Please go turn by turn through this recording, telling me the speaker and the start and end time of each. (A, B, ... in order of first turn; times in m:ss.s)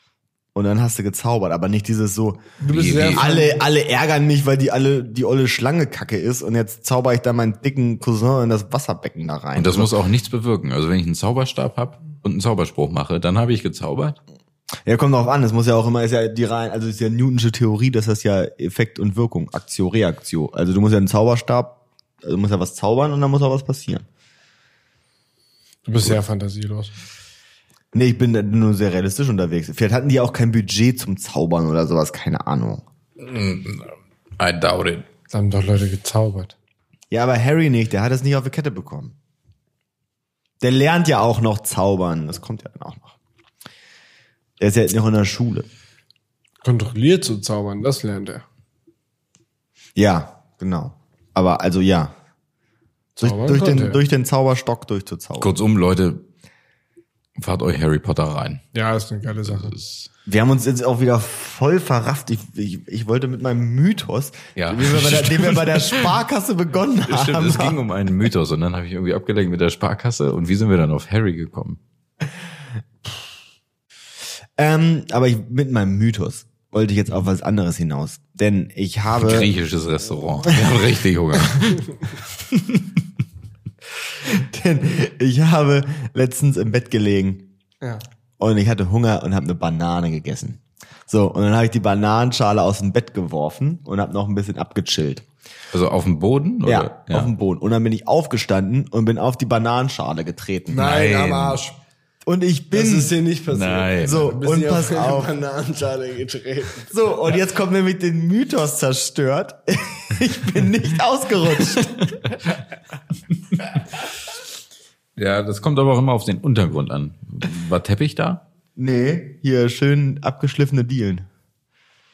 0:00.5-0:09.9 A
0:02.6-0:03.6 B
0:02.7-0:03.2 C
0:09.6-0:14.2 C
0:14.8-0:24.0 A
0:25.8-0:26.9 B
0:27.9-0:32.8 A
0:33.2-0:35.1 C
0:35.3-0:36.6 B
0:37.1-0:39.1 A
0:40.6-0:43.2 A
0:44.6-0:45.7 A
0:46.6-0:48.4 B
0:50.0-0:52.1 A
0:53.2-0:54.0 B
0:53.2-0:55.5 A
0:55.4-0:56.2 C
0:57.4-0:58.6 C
0:58.7-0:59.7 B
0:59.4-1:00.1 C
1:00.2-1:07.8 A
1:04.6-1:06.1 C
1:07.1-1:11.8 C
1:14.6-1:19.5 A
1:19.2-1:22.9 C
1:24.2-1:27.5 A
1:28.4-1:35.2 A
1:35.7-1:37.3 C
1:36.6-1:40.9 A
1:40.7-1:41.8 B
1:40.8-1:41.6 C
1:42.2-1:43.1 A
1:42.7-1:47.0 B
1:43.5-1:44.3 C
1:44.0-1:45.3 A
1:46.9-1:52.2 A
1:55.2-1:58.4 C
1:58.8-2:01.2 A